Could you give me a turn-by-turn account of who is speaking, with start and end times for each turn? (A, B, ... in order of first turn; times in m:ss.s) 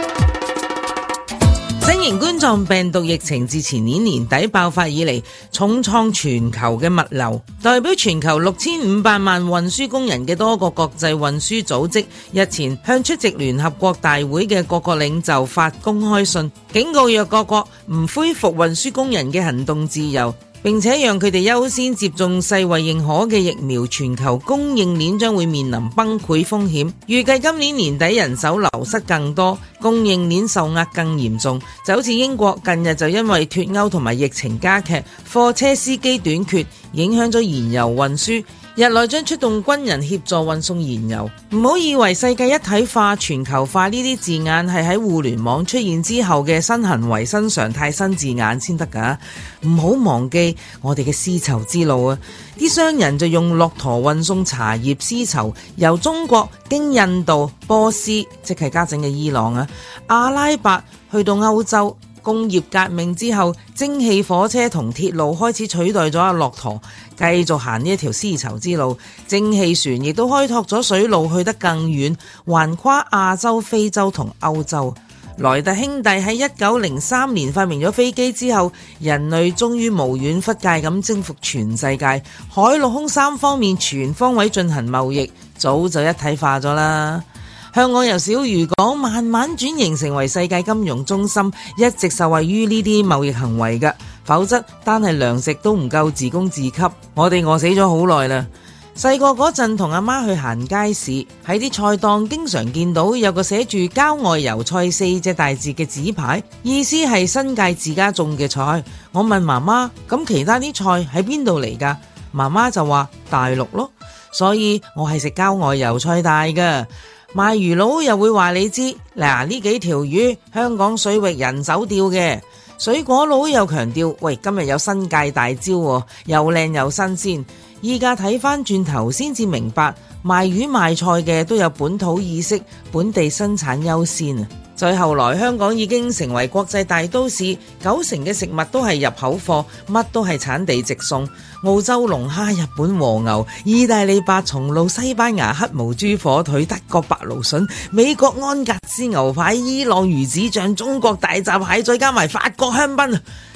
0:01.8-2:33.2 A